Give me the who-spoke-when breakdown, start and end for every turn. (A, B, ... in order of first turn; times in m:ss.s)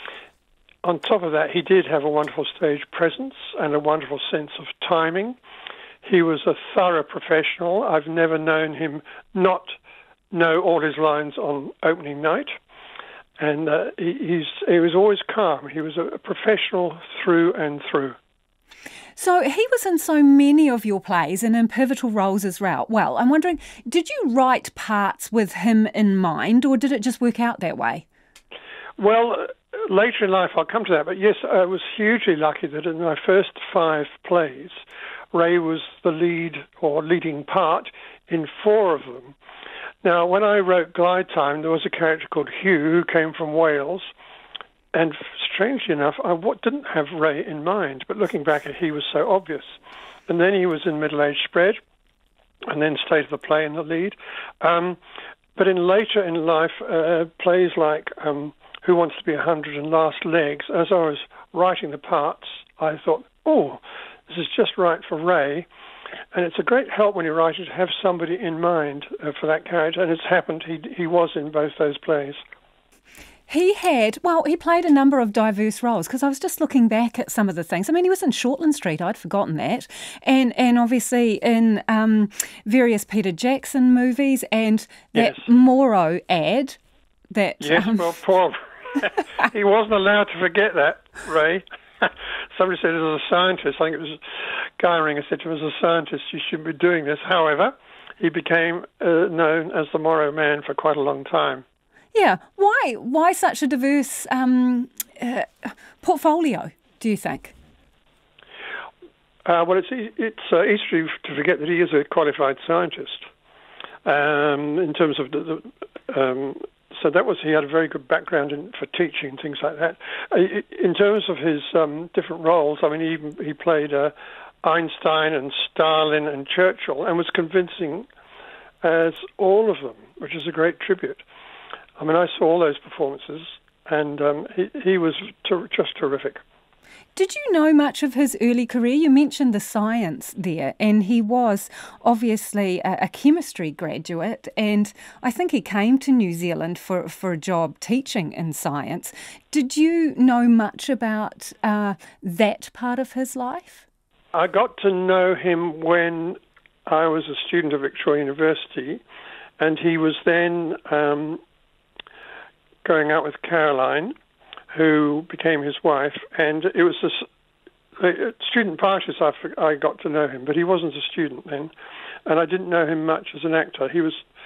0:00.8-0:05.4 A
0:06.0-0:09.8 A
0:10.3-0:12.5 A
0:13.4-0:18.2 A
0:19.2-0:28.0 B
0:29.0-0:34.8 A
0:35.3-0:39.4 A
0:40.0-0:44.1 A
0:44.9-0:49.7 A
0:50.3-0:51.8 A
0:52.7-0:55.0 A
0:55.6-1:05.6 A
1:06.3-1:12.4 A
1:13.5-1:26.8 B
1:25.1-1:25.4 A
1:27.3-1:28.1 B
1:27.6-1:41.6 A
1:42.1-1:47.5 B
1:49.4-1:53.3 A
1:54.0-2:08.1 A
2:08.8-2:11.2 A
2:12.0-2:16.4 A
2:17.1-2:33.8 B
2:34.3-2:39.0 A
2:39.6-2:41.4 A
2:42.8-2:44.1 A
2:44.7-2:47.2 A
2:48.0-2:51.7 A
2:52.2-2:54.2 A